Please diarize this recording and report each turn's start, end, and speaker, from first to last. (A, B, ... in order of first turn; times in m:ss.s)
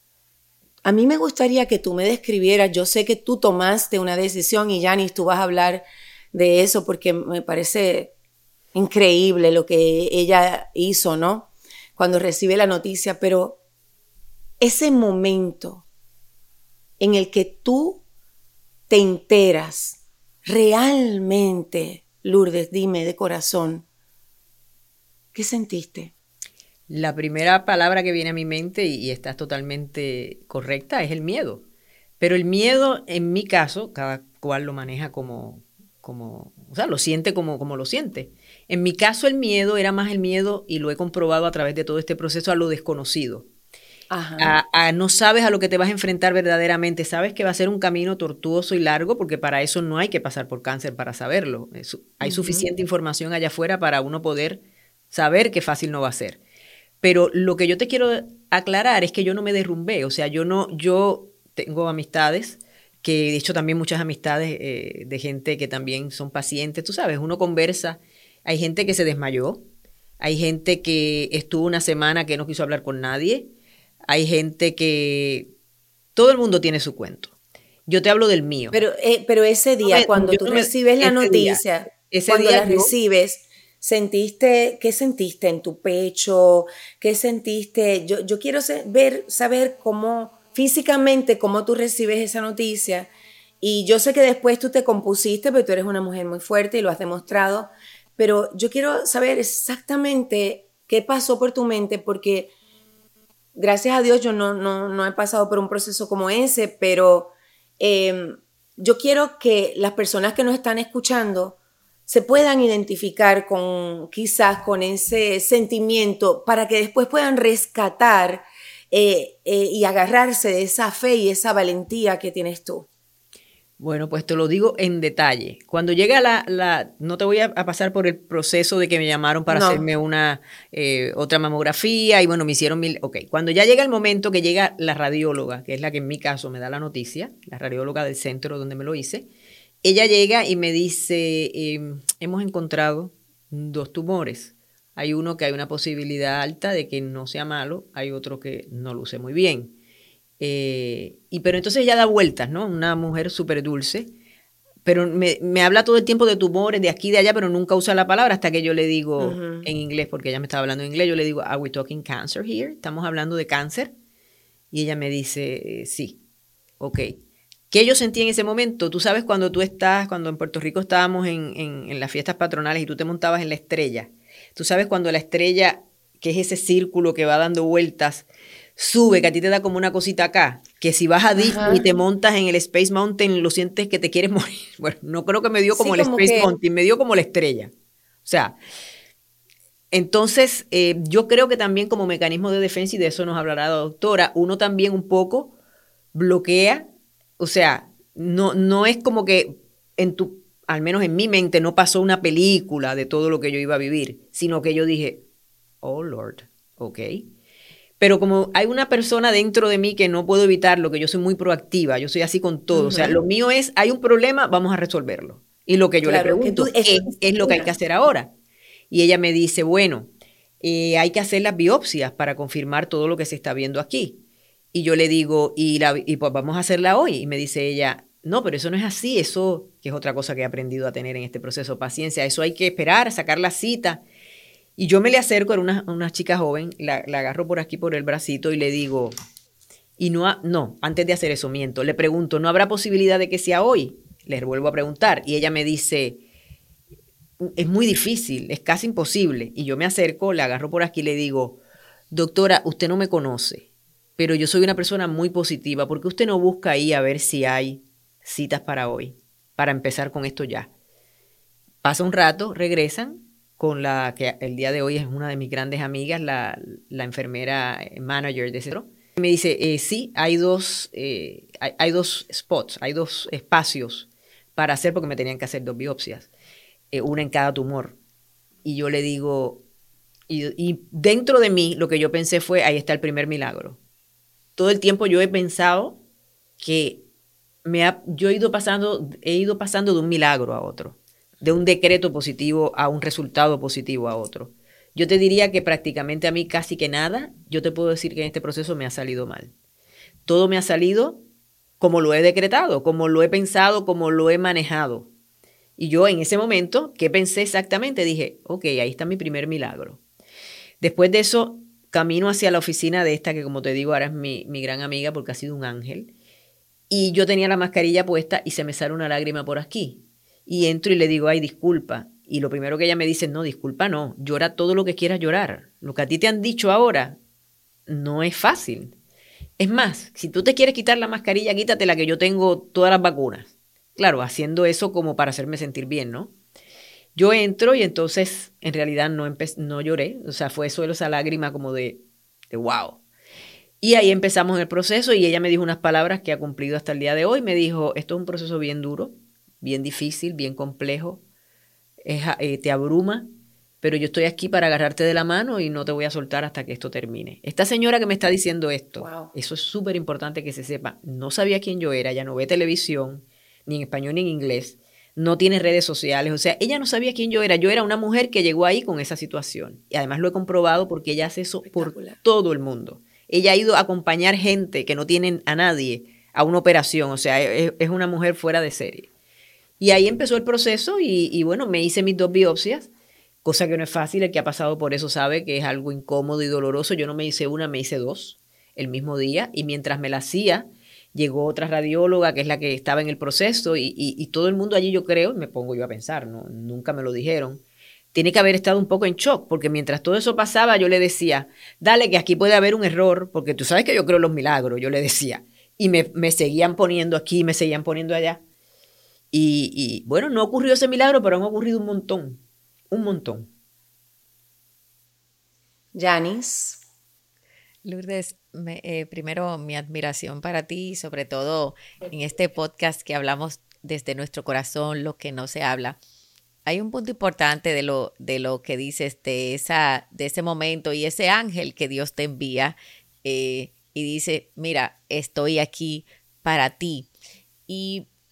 0:00.8-0:08.1 A
0:08.7-0:13.6 A
0:14.6-0:15.8 A
0:17.0-0:18.0 A
0:18.9-0:23.9 A
0:25.3-0:26.1 A
0:26.9-0:31.6 B
0:32.2-0:43.5 B
0:44.1-0:44.6 A
0:44.4-0:56.4 B
0:52.2-0:52.7 A
0:57.0-1:09.6 B
1:10.2-1:13.5 B
1:14.1-1:15.5 B
1:16.2-1:17.3 B
1:17.9-1:18.8 B
1:18.7-1:33.1 A
1:19.9-1:22.9 B
1:33.6-1:42.5 A
1:43.6-2:02.9 A
2:03.8-2:19.3 B
2:09.5-2:09.9 A
2:19.8-2:29.8 B
2:30.4-2:34.1 B
2:34.8-2:43.9 B
2:39.2-2:39.7 A
2:44.7-2:46.2 B
2:46.8-2:47.2 B
2:47.7-3:07.7 B
3:01.4-3:01.9 A
3:05.7-3:06.5 A
3:08.2-3:08.6 B
3:09.9-3:15.5 B
3:16.1-3:16.9 B
3:17.4-3:25.2 B
3:25.8-3:27.3 B
3:28.0-3:38.3 B
3:32.7-3:33.2 A
3:36.0-3:37.7 A
3:38.9-3:44.2 B
3:44.7-3:54.0 B
3:54.8-3:59.2 B
4:00.0-4:06.2 B
4:07.4-4:11.6 B
4:12.1-4:13.7 B
4:14.2-4:20.7 B
4:21.8-4:36.3 B
4:36.9-4:38.0 B
4:38.6-4:39.6 B
4:40.3-4:43.8 B
4:44.6-4:46.0 B
4:46.6-4:47.0 B
4:47.6-4:59.5 B
5:00.3-5:01.2 B
5:01.8-5:05.1 B
5:05.8-5:10.0 B
5:10.8-5:16.1 B
5:16.9-5:27.2 B
5:27.9-5:29.0 B
5:29.6-5:36.3 B
5:37.2-5:43.0 B
5:43.8-5:51.2 B
5:52.0-5:53.3 B
5:53.8-6:19.1 B
5:59.0-5:59.3 A
6:11.6-6:12.2 A
6:19.8-6:22.9 B
6:23.4-6:37.6 B
6:38.1-6:48.4 B
6:49.3-6:53.5 B
6:56.0-6:56.8 A
6:57.8-7:06.0 C
7:06.7-7:17.1 C
7:17.7-7:18.1 C